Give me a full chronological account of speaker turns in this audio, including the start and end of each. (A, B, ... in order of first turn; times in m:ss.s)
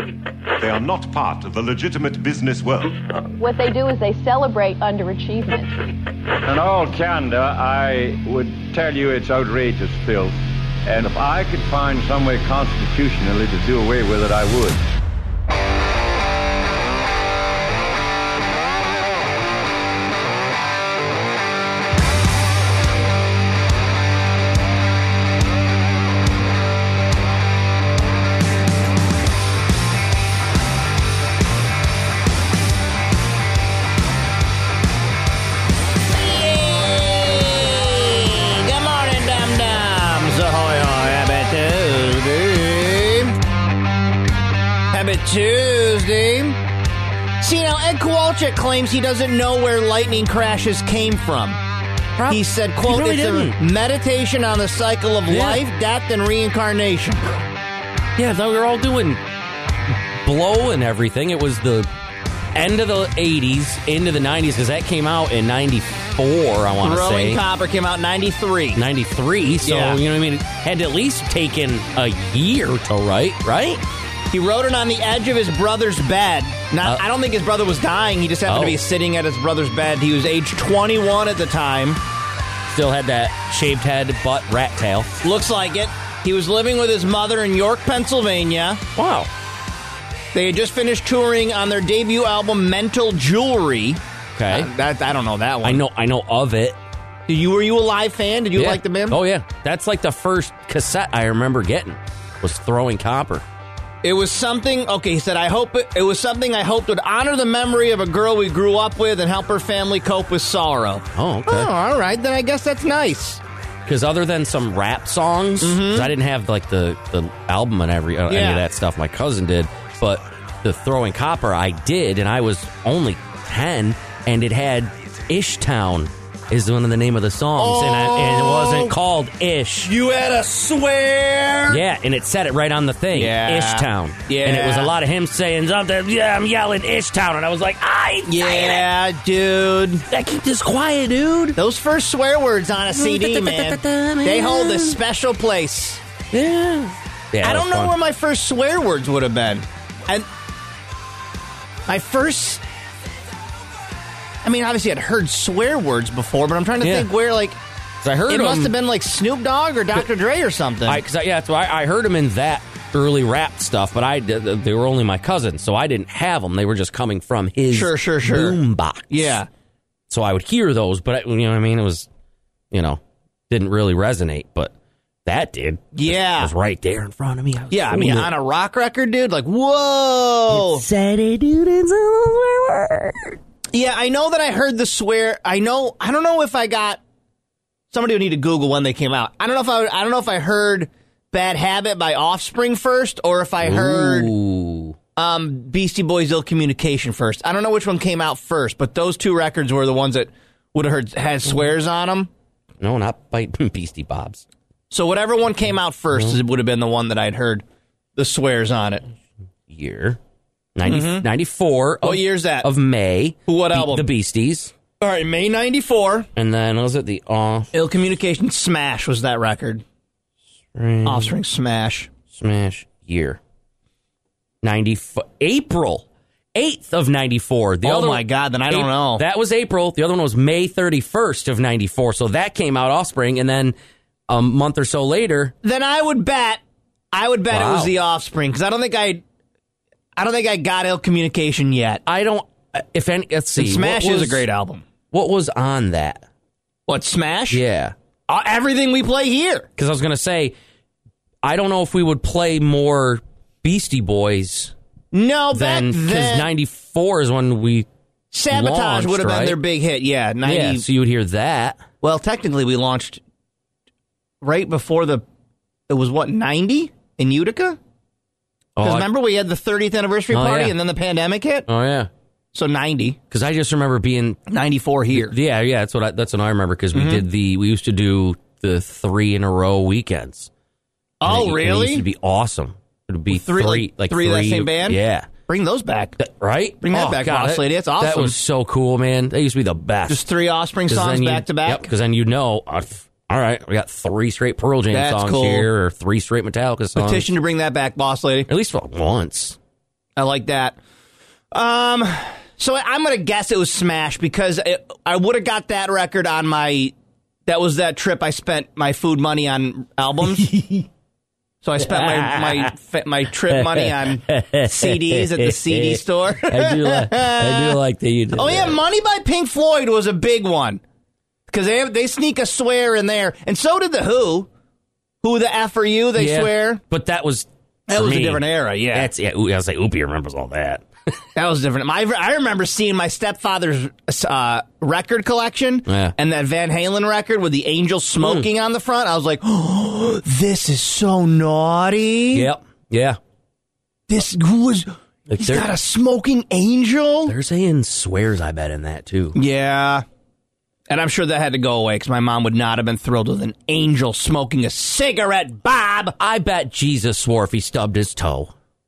0:00.6-0:03.0 A
0:03.4-0:05.8 B
0:06.5-0:14.8 C
0:36.1-0:43.4 D
0:44.9-0:46.6 D
0:47.4-0:51.6 D
0:52.2-0:53.6 E
0:52.3-0:57.2 D
0:55.3-0:55.6 E
0:58.2-0:59.2 E
1:00.2-1:01.9 E
1:02.5-1:07.4 E
1:06.8-1:08.8 D
1:08.8-1:13.8 E
1:09.6-1:10.0 D
1:14.3-1:22.0 D
1:18.5-1:18.8 E
1:22.7-1:25.1 E
1:25.2-1:28.8 D
1:29.0-1:29.3 E
1:30.3-1:35.8 D
1:34.4-1:34.7 E
1:35.6-1:36.8 E
1:37.3-1:39.2 D
1:38.6-1:43.4 E
1:44.0-1:53.4 D
1:51.2-1:51.7 E
1:53.9-2:09.9 E
1:55.6-1:56.1 D
1:58.3-1:58.6 D
2:07.6-2:09.0 D
2:09.8-2:11.8 D
2:11.7-2:18.9 E
2:13.1-2:14.9 D
2:18.3-2:20.0 D
2:20.1-2:21.6 E
2:21.6-2:26.0 D
2:22.9-2:25.0 E
2:26.3-2:28.0 E
2:27.4-2:30.3 D
2:31.9-2:32.6 D
2:34.4-2:37.6 D
2:36.8-2:37.1 E
2:38.0-2:38.7 E
2:38.3-2:41.0 D
2:40.9-2:49.4 E
2:47.7-2:49.5 D
2:50.1-2:52.1 E
2:52.7-2:54.7 E
2:55.2-2:58.3 E
2:56.0-2:56.5 D
2:57.7-3:00.8 D
3:00.5-3:03.4 E
3:03.7-3:07.0 D
3:07.9-3:14.3 D
3:13.6-3:15.0 E
3:15.2-3:22.3 D
3:22.8-3:24.4 E
3:24.9-3:27.6 D
3:28.2-3:29.0 D
3:29.7-3:30.2 E
3:30.8-3:34.7 E
3:30.9-3:31.3 D
3:32.0-3:32.7 D
3:33.5-3:34.1 D
3:35.0-3:36.3 D
3:36.4-3:37.7 E
3:37.7-3:39.8 D
3:40.7-3:41.3 E
3:41.0-3:42.1 D
3:42.3-3:43.4 E
3:44.6-3:53.8 E
3:47.8-3:49.2 D
3:54.3-3:55.5 E
3:55.6-3:56.6 D
3:57.1-3:59.2 D
3:57.5-3:57.9 E
4:00.2-4:02.0 D
4:02.1-4:04.5 E
4:03.6-4:04.8 D
4:05.1-4:06.2 E
4:06.9-4:07.6 D
4:07.5-4:07.9 E
4:08.3-4:09.7 D
4:09.8-4:10.6 E
4:11.4-4:14.7 E
4:15.1-4:16.5 D
4:15.5-4:17.9 E
4:18.3-4:20.8 D
4:18.5-4:19.6 E
4:20.4-4:21.8 E
4:22.0-4:23.2 D
4:24.4-4:25.2 D
4:25.9-4:27.8 D
4:28.8-4:29.1 E
4:28.8-4:31.7 D
4:30.3-4:30.8 E
4:31.7-4:32.1 E
4:32.5-4:33.2 D
4:33.3-4:34.4 E
4:34.5-4:35.4 D
4:35.1-4:40.5 E
4:36.9-4:37.2 D
4:41.2-4:42.0 D
4:41.2-4:45.3 E
4:43.3-4:46.2 D
4:46.2-4:50.2 E
4:46.8-4:48.4 D
4:50.1-4:51.9 D
4:50.9-4:57.3 E
4:54.9-4:55.7 D
4:57.0-4:58.5 D
4:58.5-4:59.6 E
5:00.2-5:00.8 D
5:01.5-5:06.9 D
5:07.5-5:10.5 D
5:10.2-5:10.9 E
5:11.6-5:17.8 D
5:11.8-5:12.7 E
5:13.5-5:18.8 E
5:18.3-5:20.8 D
5:21.5-5:24.5 D
5:25.2-5:26.8 D
5:26.2-5:30.8 E
5:27.9-5:29.1 D
5:31.4-5:42.5 D
5:35.9-5:36.2 E
5:38.2-5:38.5 E
5:42.3-5:43.2 E
5:44.1-5:47.4 D
5:45.3-5:45.7 E
5:47.3-5:49.4 E
5:49.4-5:50.0 D
5:50.9-5:56.2 D
5:56.2-5:58.5 E